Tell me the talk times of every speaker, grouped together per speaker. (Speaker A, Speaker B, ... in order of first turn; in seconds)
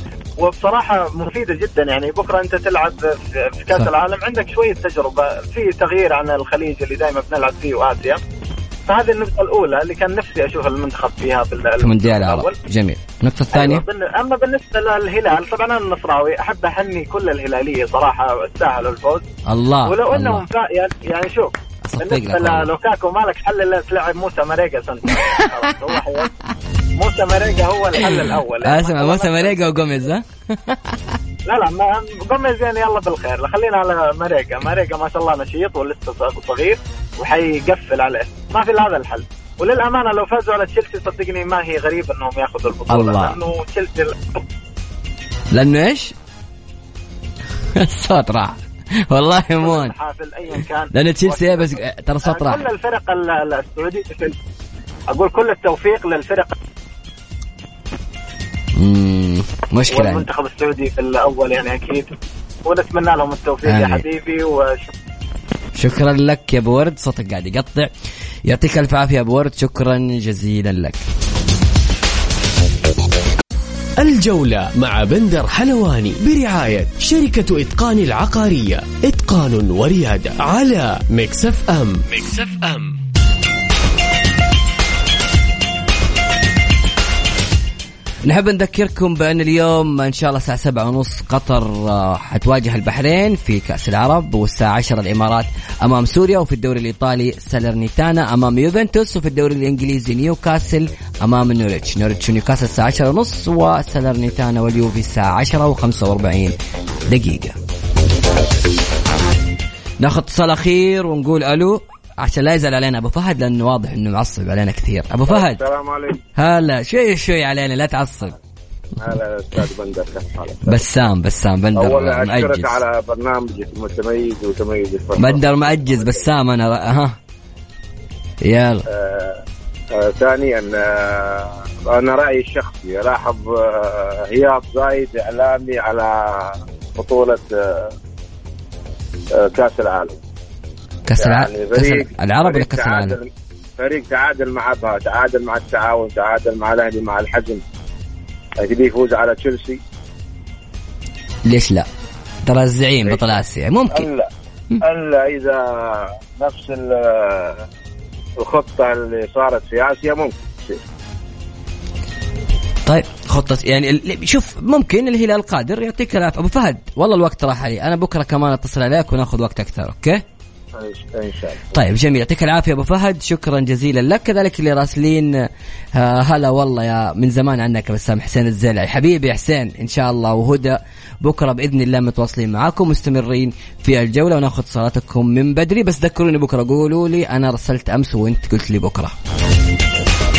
Speaker A: 0.4-8.2, 8.9-12.6, 13.5-19.3, 19.9-26.3, 27.0-29.8, 31.5-44.4, 49.6-54.4, 55.1-56.6, 59.9-64.9
Speaker B: 11.8-13.8, 19.5-20.4, 21.9-22.7, 25.1-25.9, 28.0-31.2, 42.9-43.4, 45.5-46.1, 47.8-49.9, 50.9-52.6, 58.8-60.3, 63.6-64.0, 65.8-67.9, 68.5-71.0, 88.2-106.5, 107.1-107.5, 110.0-115.6, 116.4-118.3, 120.7-122.8, 125.2-127.2, 128.4-128.9, 141.1-143.2, 151.4-151.9, 152.4-154.1, 162.9-170.2, 171.7-189.2
Speaker C: 74.0-83.0
Speaker D: 115.3-116.2, 119.0-120.8, 121.8-126.2, 128.9-129.4, 129.9-137.9, 139.3-140.2, 141.2-147.6, 148.6-149.8, 153.1-153.3, 153.9-154.3, 154.8-157.7, 158.4-160.8, 170.8-171.7